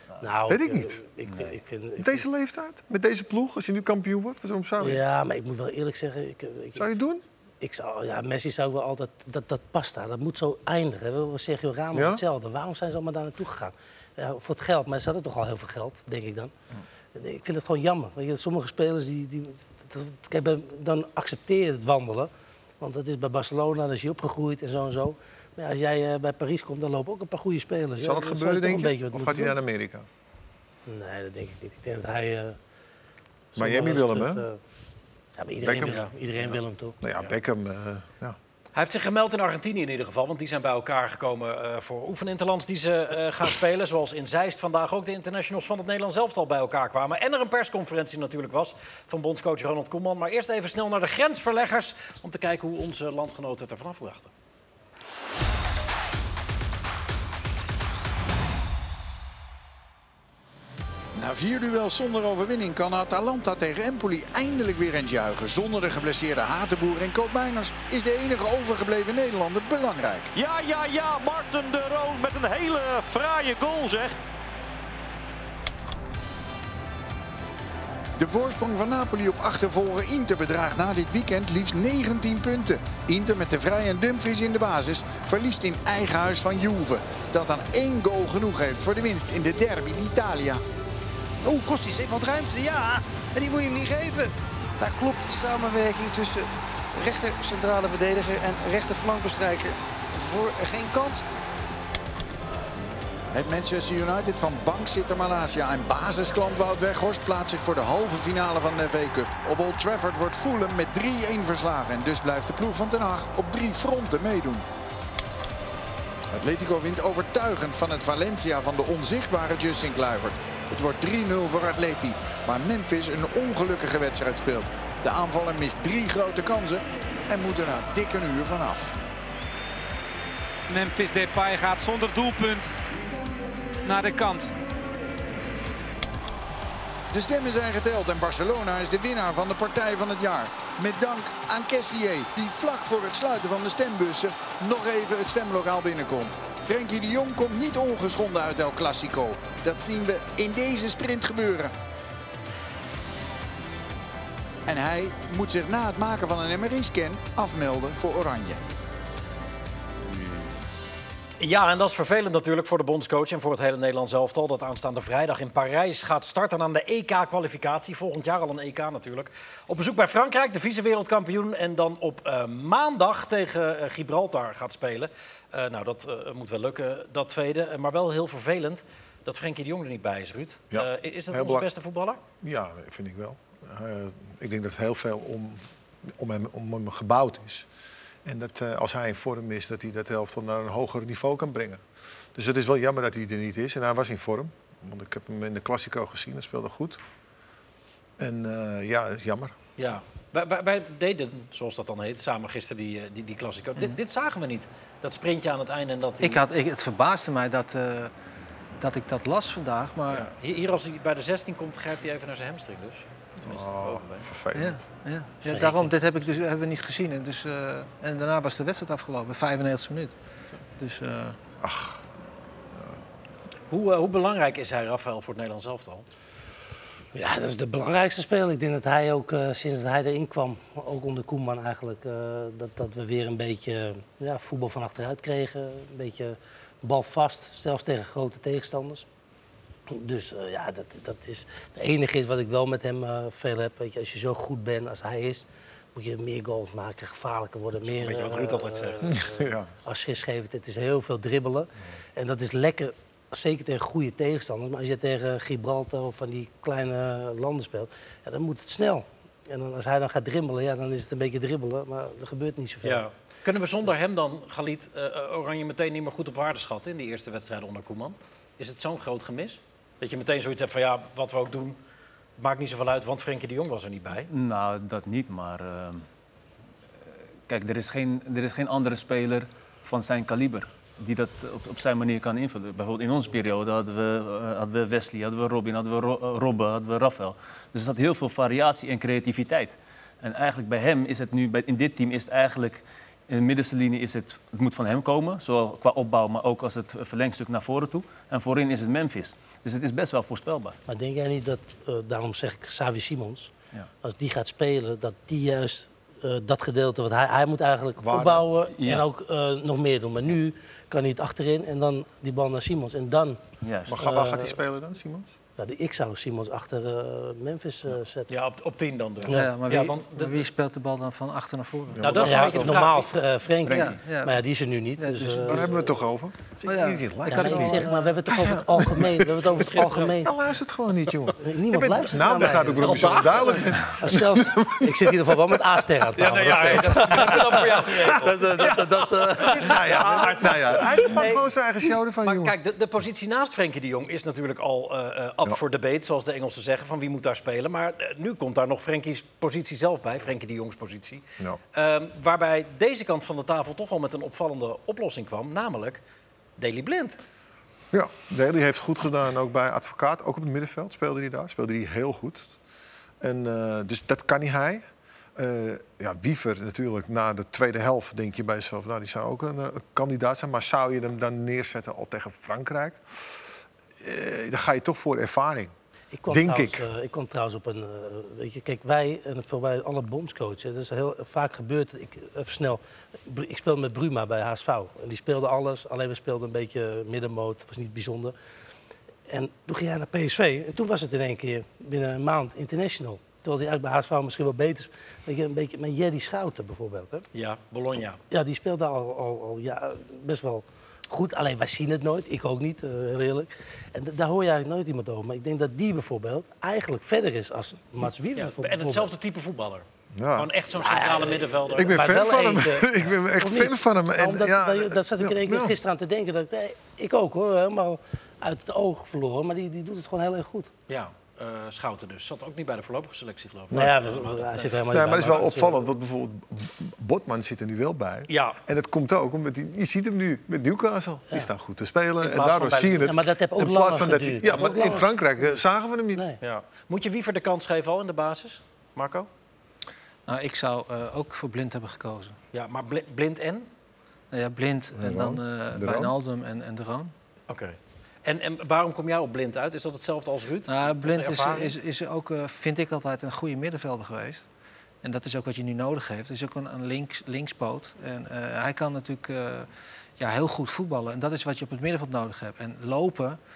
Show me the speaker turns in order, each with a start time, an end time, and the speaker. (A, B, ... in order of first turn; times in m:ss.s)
0:00.2-0:02.3 A
0:00.5-0:01.0 B
0:02.0-0:05.0 B
0:04.8-0:06.9 A
0:06.8-0:07.2 B
0:07.6-0:16.5 A
0:11.9-0:12.2 B
0:17.2-0:22.3 A
0:22.8-0:29.6 A
0:28.0-0:30.1 B
0:30.9-0:32.6 A
0:33.5-0:34.6 A
0:33.6-0:34.5 B
0:35.4-0:37.0 A
0:35.6-0:36.1 B
0:37.0-0:38.4 B
0:38.8-0:54.3 C
1:01.2-1:10.3 D
1:10.3-1:14.2 E
1:18.2-1:30.6 D
1:31.4-1:41.2 F
1:43.3-1:54.7 D
1:56.3-2:09.0 D
2:10.7-2:12.7 G
2:13.8-2:14.5 G
2:17.1-2:31.7 D
2:34.7-2:38.6 D
2:41.4-3:02.2 C
3:00.7-3:01.7 B
3:02.4-3:07.7 B
3:08.2-3:11.8 B
3:12.4-3:17.0 B
3:18.2-3:19.6 B
3:19.8-3:26.4 C
3:26.2-3:28.1 H
3:28.8-3:30.3 H
3:30.1-3:34.2 C
3:33.4-3:34.8 B
3:34.5-3:40.1 H
3:35.5-3:35.9 A
3:40.8-3:41.4 H
3:41.6-3:42.0 B
3:42.7-3:43.0 B
3:43.7-3:46.0 C
3:47.1-3:59.1 A
3:59.9-4:23.1 A
4:07.9-4:09.1 C
4:09.0-4:09.7 B
4:22.8-4:31.8 C
4:32.4-4:34.3 C
4:34.3-4:36.1 I
4:37.5-5:00.8 I
5:00.9-5:03.5 A
5:04.0-5:13.4 A
5:08.0-5:08.5 B
5:08.8-5:09.0 I
5:13.6-5:14.0 I
5:13.9-5:15.3 B
5:14.0-5:14.6 A
5:15.6-5:18.3 A
5:18.3-5:20.5 C
5:19.3-5:22.5 H
5:22.0-5:22.4 B
5:22.0-5:23.1 C
5:22.2-5:25.9 A
5:23.7-5:24.4 H
5:25.0-5:25.8 H
5:25.4-5:35.6 B
5:26.6-5:27.9 H
5:27.3-5:30.3 A
5:29.6-5:30.1 C
5:31.4-5:39.6 A
5:32.8-5:33.7 C
5:36.2-5:41.5 C
5:38.0-5:42.6 B
5:42.2-5:56.0 C
5:56.6-5:57.2 C
5:57.9-6:02.5 B
6:03.2-6:04.8 B
6:05.4-6:15.7 B
6:16.1-6:28.4 A
6:16.3-6:16.9 B
6:29.3-6:37.3 A
6:37.3-6:38.2 C
6:38.3-6:49.1 A
6:48.4-6:49.8 C
6:50.1-6:50.5 B
6:50.4-6:52.1 C
6:50.8-7:00.7 A
6:51.7-6:55.8 B
7:00.9-7:04.7 C
7:03.7-7:05.9 A
7:04.9-7:16.2 B
7:08.3-7:08.6 C
7:12.2-7:13.1 C
7:13.0-7:15.1 A
7:16.4-7:19.3 C
7:20.3-7:22.4 H
7:22.5-7:23.7 C
7:24.3-7:27.1 H
7:25.0-7:26.1 B
7:27.5-7:31.8 C
7:30.7-7:34.5 H
7:35.0-7:43.4 H